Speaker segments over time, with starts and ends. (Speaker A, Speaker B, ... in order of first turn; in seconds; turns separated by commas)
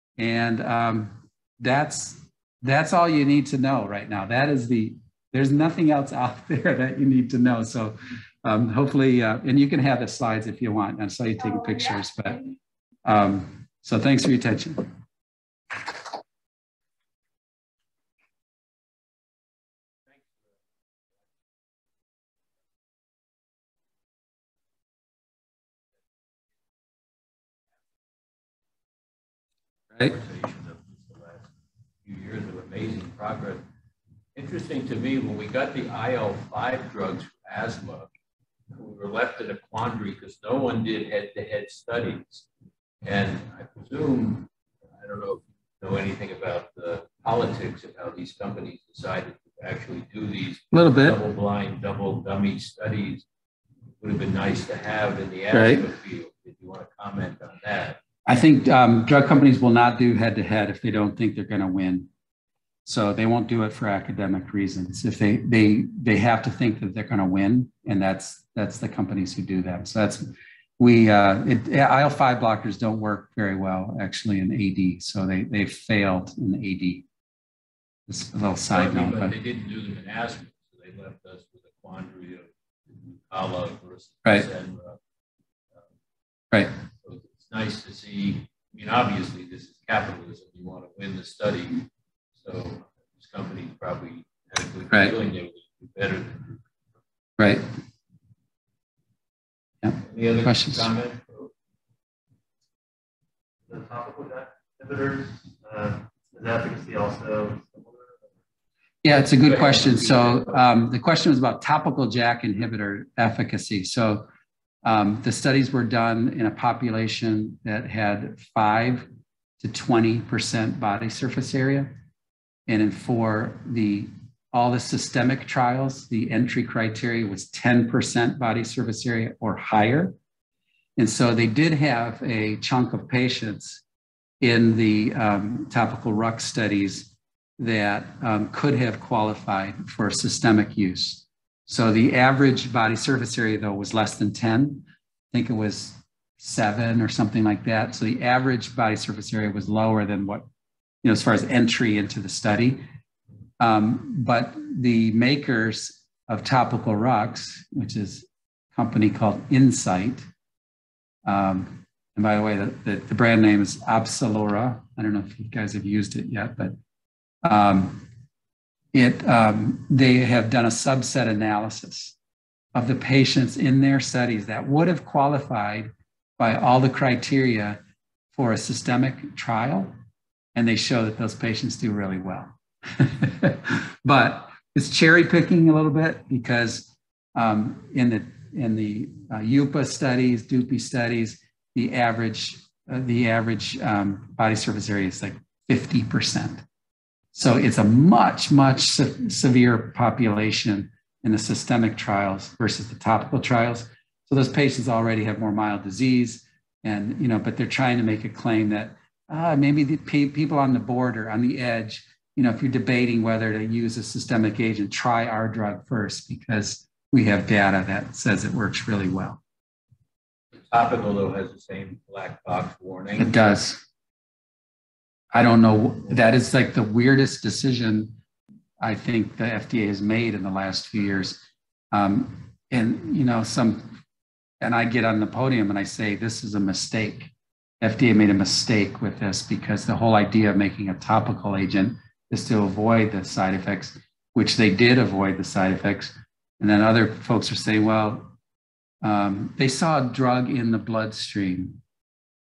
Speaker A: 0.2-12.4, Speaker A: 13.1-14.9, Speaker B: 30.0-31.5, Speaker B: 32.0-33.6, Speaker B: 34.4-38.1, Speaker B: 38.7-42.5, Speaker B: 43.0-53.3, Speaker A: 50.7-51.2, Speaker B: 54.0-58.0, Speaker A: 55.5-55.9, Speaker A: 58.3-62.1, Speaker A: 62.9-77.1, Speaker A: 78.1-79.3, Speaker B: 78.7-82.5, Speaker B: 83.3-85.0, Speaker B: 87.0-96.6, Speaker A: 94.9-95.2, Speaker A: 97.4-97.7, Speaker A: 99.8-100.9, Speaker B: 100.0-101.5, Speaker C: 103.7-108.2, Speaker A: 109.0-114.3, Speaker B: 109.4-110.6, Speaker A: 114.8-119.1, Speaker A: 119.6-121.9, Speaker A: 122.7-130.2, Speaker A: 131.0-133.8, Speaker A: 134.4-150.5, Speaker A: 151.0-152.8, Speaker A: 153.6-160.3, Speaker A: 161.2-166.8, Speaker A: 167.4-168.0, Speaker A: 168.9-172.2, Speaker A: 172.7-177.8, Speaker A: 178.3-179.9, Speaker A: 180.6-196.6, Speaker A: 197.3-219.4, Speaker B: 220.7-223.6, Speaker A: 223.2-223.8, Speaker A: 225.3-228.2, Speaker A: 228.8-234.0, Speaker A: 234.6-248.3, Speaker A: 249.0-251.8